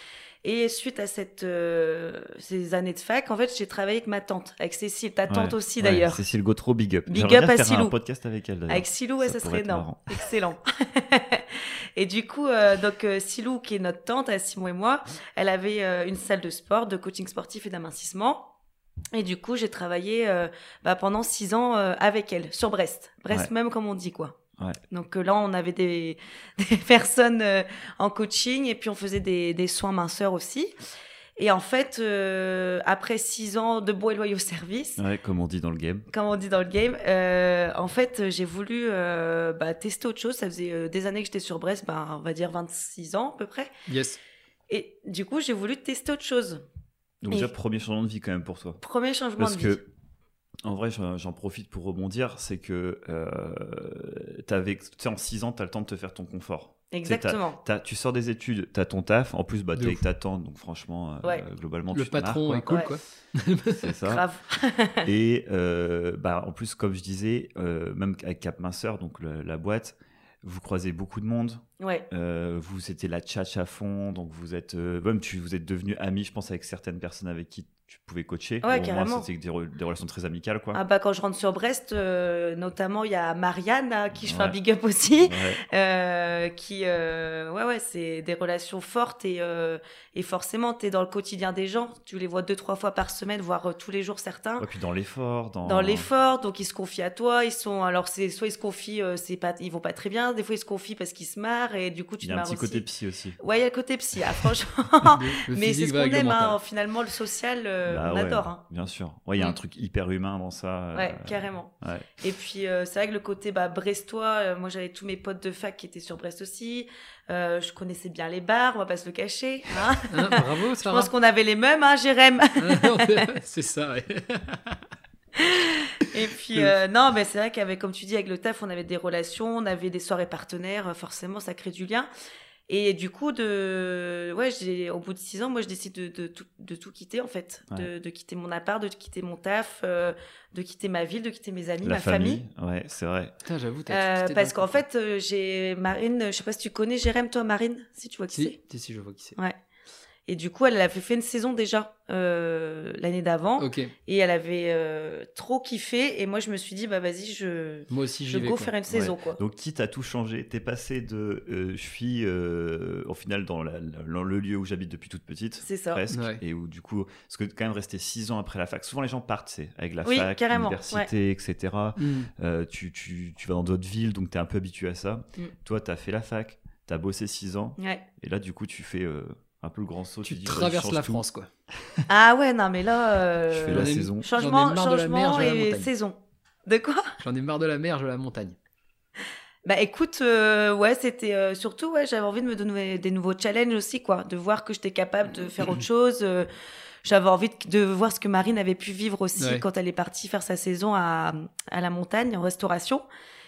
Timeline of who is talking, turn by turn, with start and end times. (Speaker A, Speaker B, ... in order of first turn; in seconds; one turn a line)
Speaker A: 0.4-6.2
Speaker B: 5.3-10.0
Speaker A: 7.1-7.9
Speaker A: 8.7-18.5
Speaker A: 19.1-24.4
Speaker A: 24.9-30.7
Speaker A: 31.4-35.0
Speaker B: 35.0-36.1
Speaker A: 36.1-43.7
Speaker C: 43.9-44.2
Speaker A: 44.7-46.6
Speaker B: 47.2-48.8
Speaker A: 48.8-49.9
Speaker B: 49.4-49.8
Speaker B: 50.6-62.8
Speaker A: 56.9-57.6
Speaker C: 59.7-60.0
Speaker C: 61.9-63.9
Speaker A: 62.7-62.9
Speaker B: 63.7-64.2
Speaker A: 64.0-65.1
Speaker B: 65.0-80.8
Speaker A: 71.8-72.0
Speaker A: 78.6-79.3
Speaker A: 80.7-94.7
Speaker B: 84.2-84.6
Speaker B: 85.2-85.6
Speaker B: 94.6-96.1
Speaker A: 95.7-102.8
Speaker B: 102.2-103.4
Speaker A: 103.4-108.6
Speaker C: 105.0-106.6
Speaker B: 107.9-112.1
Speaker A: 110.9-123.3
Speaker C: 120.1-121.1
Speaker C: 122.6-124.8
Speaker A: 125.4-132.1
Speaker A: 132.7-142.4
Speaker B: 141.8-143.3
Speaker C: 143.4-144.8
Speaker A: 143.9-148.6
Speaker C: 148.3-149.3
Speaker A: 150.3-159.4
Speaker C: 153.6-153.9
Speaker C: 157.9-158.7
Speaker B: 158.8-181.2
Speaker A: 165.6-166.0
Speaker C: 166.1-166.4
Speaker A: 170.0-171.1
Speaker C: 172.0-172.3
Speaker A: 177.8-178.0
Speaker C: 180.2-181.5
Speaker A: 182.1-187.1
Speaker B: 183.5-184.3
Speaker C: 183.7-185.9
Speaker C: 187.2-188.6
Speaker A: 189.6-196.5
Speaker A: 197.0-203.0
Speaker C: 199.4-199.6